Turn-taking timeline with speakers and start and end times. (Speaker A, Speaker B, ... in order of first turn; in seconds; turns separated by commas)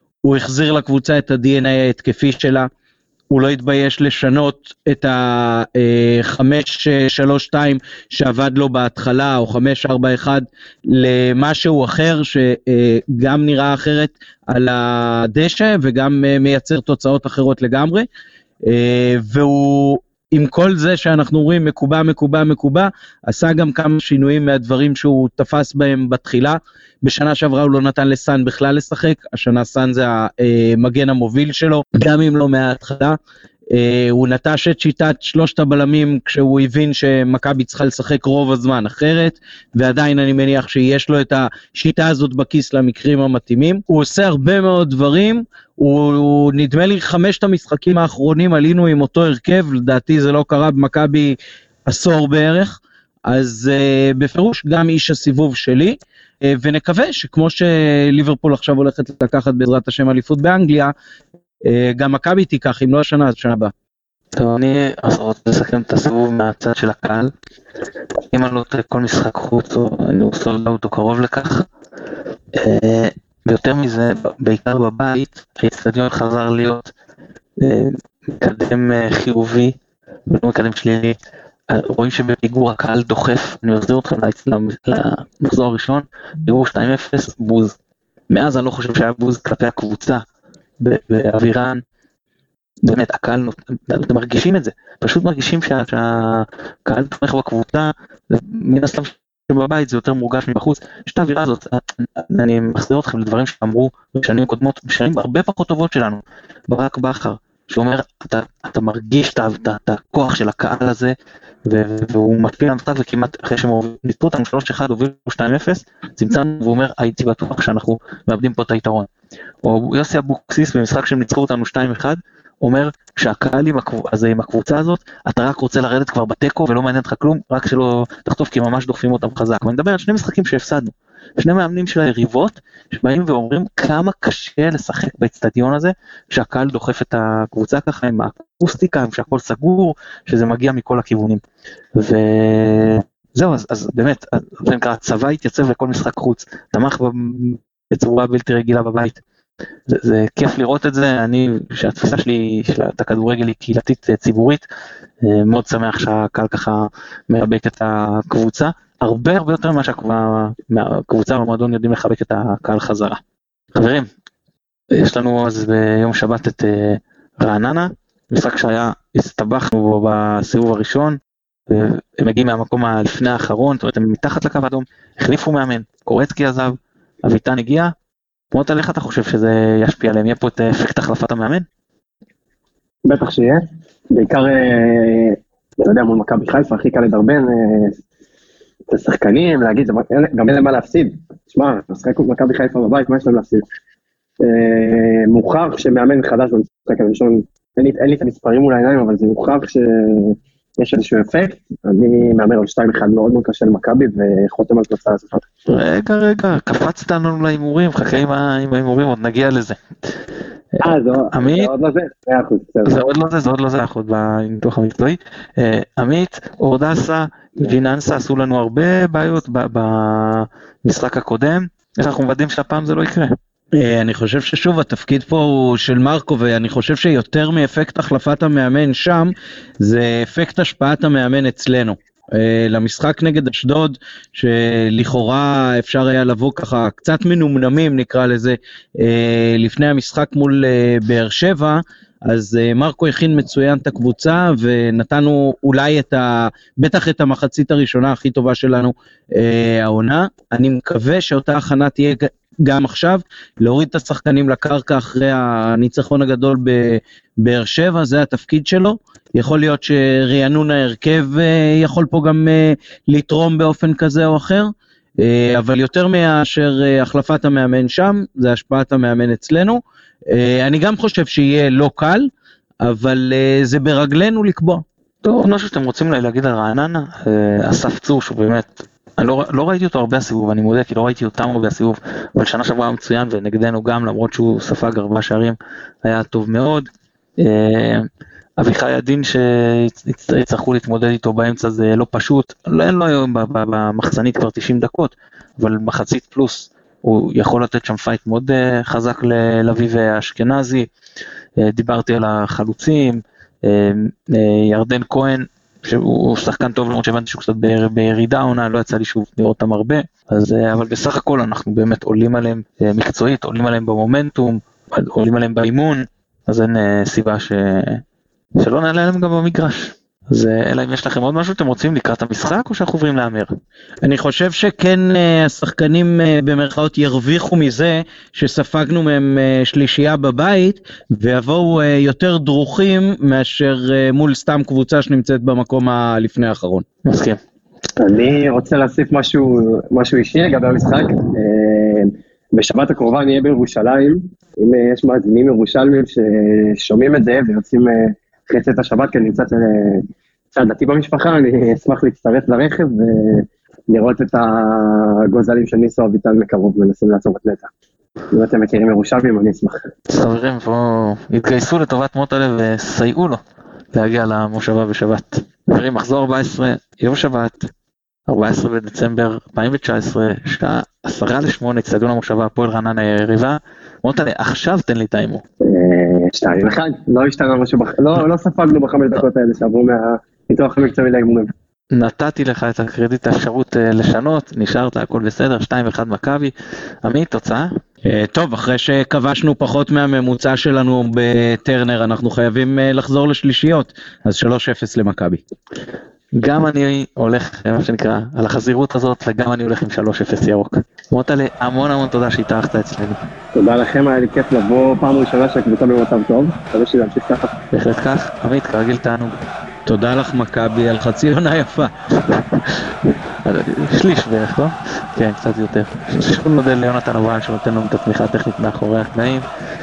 Speaker A: 0.2-2.7, Speaker A: 3.3-18.1, Speaker A: 18.6-33.2, Speaker A: 33.7-60.9, Speaker A: 61.6-63.7, Speaker B: 64.4-67.3, Speaker B: 68.3-71.7, Speaker B: 72.5-76.9, Speaker B: 77.6-81.2, Speaker B: 81.7-87.8, Speaker B: 88.3-90.2, Speaker B: 90.8-91.8, Speaker B: 92.8-111.2, Speaker B: 111.7-119.1, Speaker B: 119.6-141.4, Speaker B: 141.9-149.2, Speaker B: 149.9-154.7, Speaker B: 155.2-163.2, Speaker B: 163.8-164.1, Speaker B: 164.9-177.9, Speaker B: 178.5-181.7, Speaker C: 183.1-188.0, Speaker C: 188.9-193.7, Speaker C: 194.4-205.4, Speaker B: 205.7-209.8, Speaker B: 210.7-211.7, Speaker C: 210.8-213.0, Speaker B: 212.8-223.3, Speaker A: 223.7-272.3, Speaker A: 272.8-274.8, Speaker B: 275.2-288.1, Speaker B: 288.6-300.9, Speaker B: 301.6-318.0, Speaker B: 318.6-323.5, Speaker A: 324.0-336.9, Speaker B: 337.1-337.4, Speaker C: 338.0-357.7, Speaker C: 358.3-359.9, Speaker B: 360.1-363.4, Speaker B: 363.9-367.7, Speaker B: 368.3-375.4, Speaker C: 375.6-381.5, Speaker B: 381.9-387.7, Speaker A: 388.1-395.4, Speaker B: 396.4-403.2, Speaker C: 403.6-407.5, Speaker B: 407.7-409.4, Speaker A: 409.9-411.9, Speaker B: 412.2-419.5